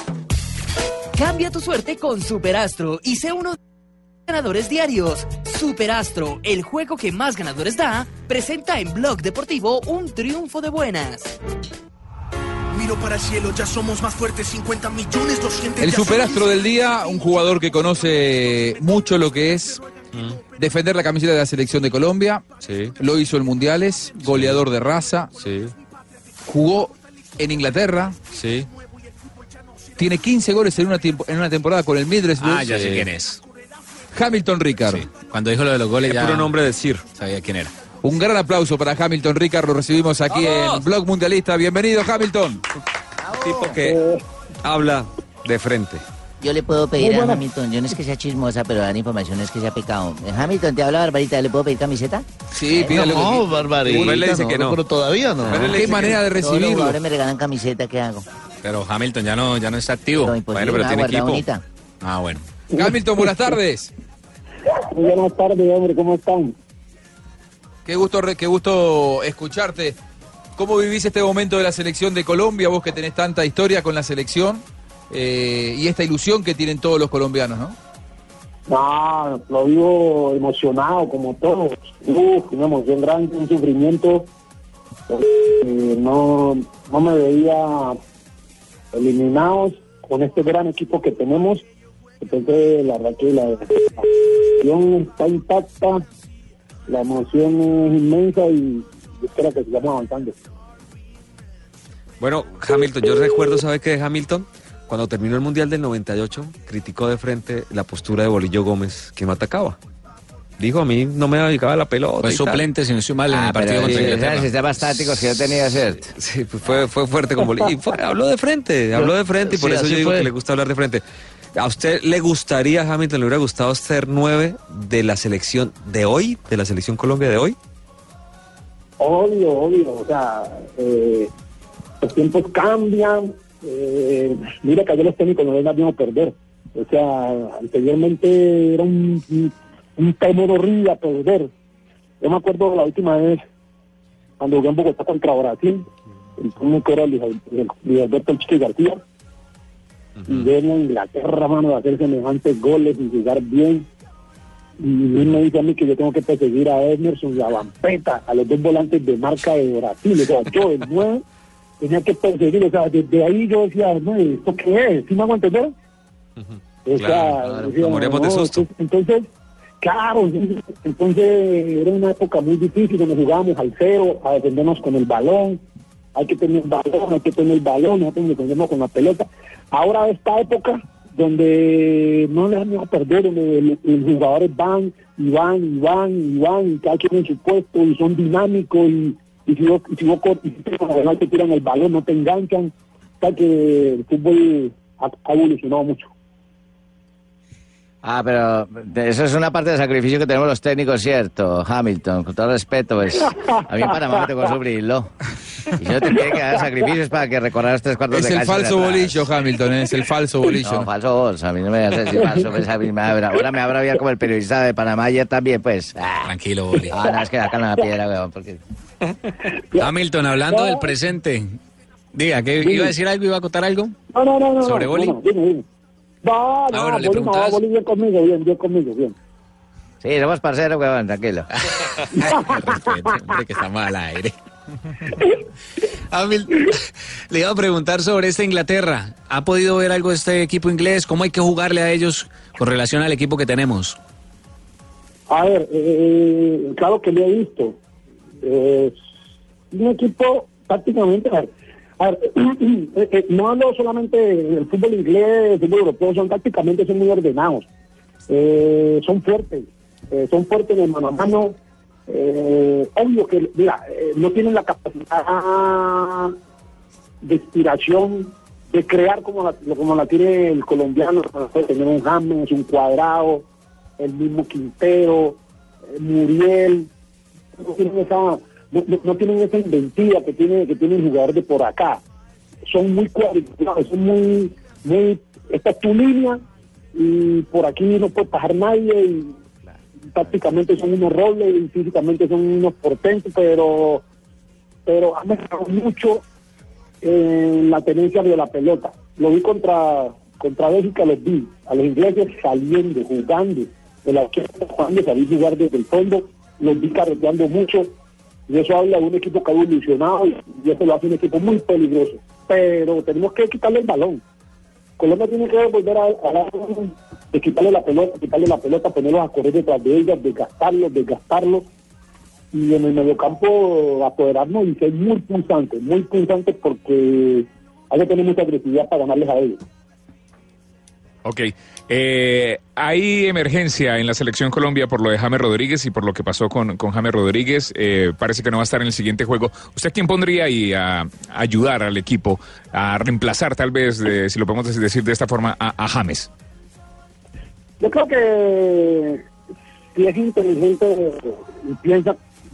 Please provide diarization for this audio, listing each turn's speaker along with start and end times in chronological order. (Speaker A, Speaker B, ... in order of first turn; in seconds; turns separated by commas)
Speaker A: 1.1-3.6, Speaker A: 4.3-11.3, Speaker B: 12.7-16.5, Speaker C: 15.8-19.8, Speaker D: 20.1-20.4, Speaker C: 20.6-22.4, Speaker D: 22.6-22.9, Speaker C: 23.0-25.3, Speaker D: 24.3-24.6, Speaker D: 25.4-25.7, Speaker C: 26.5-28.2, Speaker D: 28.3-28.7, Speaker C: 30.0-33.0, Speaker E: 32.4-33.4, Speaker D: 32.8-33.0, Speaker C: 34.1-35.1, Speaker E: 34.9-36.5, Speaker D: 36.0-37.1, Speaker E: 37.1-37.7, Speaker C: 38.0-42.6, Speaker D: 43.4-44.0, Speaker F: 43.8-44.2, Speaker D: 44.6-46.0, Speaker G: 46.4-52.2, Speaker C: 52.5-54.1, Speaker H: 52.8-55.8, Speaker D: 53.9-54.8, Speaker D: 55.4-56.2, Speaker C: 55.6-57.0, Speaker G: 56.4-58.2, Speaker E: 58.6-60.4, Speaker G: 60.2-61.6, Speaker D: 60.5-61.4, Speaker E: 62.0-62.4, Speaker C: 62.7-63.9, Speaker F: 64.7-66.5, Speaker C: 67.8-70.0, Speaker C: 70.6-77.8, Speaker F: 78.7-84.3, Speaker F: 85.1-88.0, Speaker F: 88.9-91.6, Speaker F: 92.2-96.0, Speaker F: 96.9-100.4, Speaker D: 102.2-109.8, Speaker D: 110.6-112.6, Speaker E: 112.2-114.5, Speaker I: 113.3-116.1, Speaker D: 113.8-114.3, Speaker D: 116.1-121.0, Speaker H: 118.9-120.3, Speaker D: 121.5-127.5, Speaker F: 129.0-131.3, Speaker F: 132.0-141.5, Speaker F: 142.2-143.4, Speaker F: 144.4-145.8, Speaker F: 146.4-149.0, Speaker D: 150.2-150.5, Speaker F: 150.3-153.9, Speaker F: 154.8-161.2, Speaker F: 161.8-165.7, Speaker D: 166.4-168.7, Speaker F: 166.8-169.3, Speaker F: 169.8-175.6, Speaker F: 176.1-196.1, Speaker I: 198.0-205.1, Speaker F: 203.3-203.7, Speaker I: 205.8-209.3, Speaker C: 208.1-210.9, Speaker I: 210.6-216.3, Speaker E: 216.2-217.0, Speaker I: 216.9-218.6, Speaker E: 219.8-221.6, Speaker F: 220.5-220.9, Speaker E: 222.1-224.0, Speaker F: 222.6-222.9, Speaker F: 224.1-225.6, Speaker E: 224.6-225.2, Speaker F: 226.2-229.1, Speaker E: 226.7-227.6, Speaker I: 230.0-231.5, Speaker E: 231.6-234.3, Speaker F: 232.2-232.6, Speaker E: 236.1-236.8, Speaker E: 237.3-244.0, Speaker F: 245.3-247.8, Speaker F: 248.4-249.0, Speaker F: 249.7-257.6, Speaker F: 258.3-261.5, Speaker F: 262.1-266.4, Speaker F: 267.2-273.4, Speaker F: 274.0-275.4, Speaker F: 275.9-276.9, Speaker F: 277.6-282.0, Speaker F: 282.7-286.4, Speaker F: 286.9-289.4, Speaker F: 290.1-294.0, Speaker F: 294.9-296.2, Speaker F: 297.0-307.9, Speaker F: 308.5-314.2, Speaker F: 315.0-321.7, Speaker F: 322.5-329.6, Speaker J: 331.2-346.3, Speaker F: 347.8-349.2, Speaker F: 349.9-352.2